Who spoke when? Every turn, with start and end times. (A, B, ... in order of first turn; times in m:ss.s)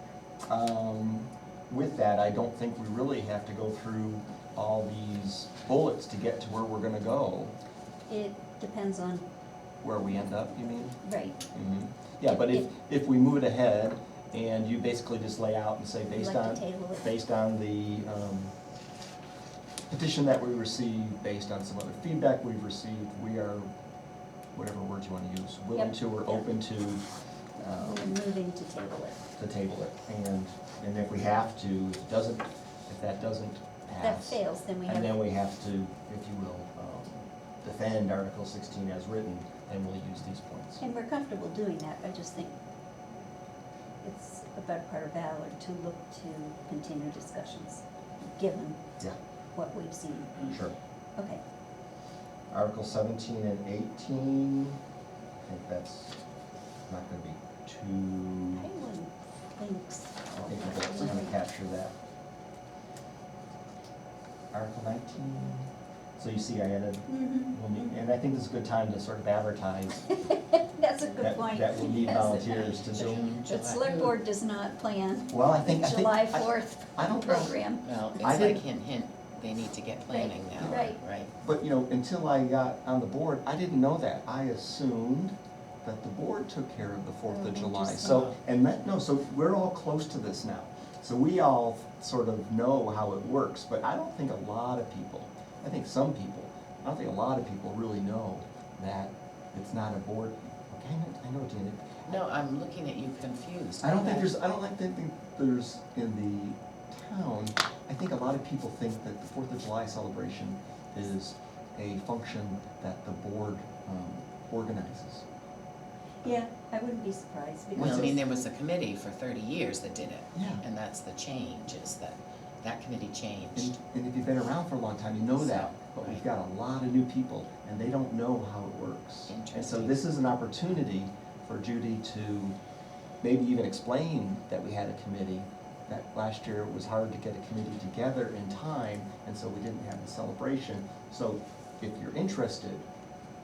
0:00.5-0:07.5 A
0:08.1-0:09.2 B
0:09.8-0:11.0 A
0:11.0-0:11.4 B
0:11.5-0:18.5 A
0:12.3-0:12.6 B
0:16.1-0:17.1 B
0:19.9-0:23.7 A
0:24.5-0:27.0 A
0:25.7-0:26.4 B
0:27.6-0:28.2 A
0:27.8-0:29.2 B
0:29.4-0:40.8 A
0:34.0-0:35.2 B
0:40.8-0:42.5 B
0:44.0-0:48.8 B
0:49.5-0:50.6 B
0:50.5-0:50.7 A
0:52.5-0:54.8 A
0:55.4-0:56.2 A
0:56.9-0:58.7 A
0:58.6-1:01.4 B
1:00.3-1:01.9 A
1:04.5-1:10.1 A
1:07.1-1:08.0 B
1:10.1-1:18.6 B
1:11.2-1:13.4 A
1:12.8-1:14.1 C
1:15.3-1:17.6 A
1:17.8-1:21.3 C
1:18.2-1:18.6 A
1:20.1-1:21.0 B
1:20.6-1:42.2 A
1:27.3-1:28.3 B
1:27.9-1:28.4 C
1:42.0-1:44.4 C
1:43.8-1:55.2 A
1:56.2-1:58.3 B
1:57.8-1:58.1 A
1:57.8-2:03.8 C
2:00.3-2:00.6 A
2:03.6-2:12.6 A
2:05.3-2:06.2 C
2:09.3-2:10.0 C
2:13.2-2:22.8 A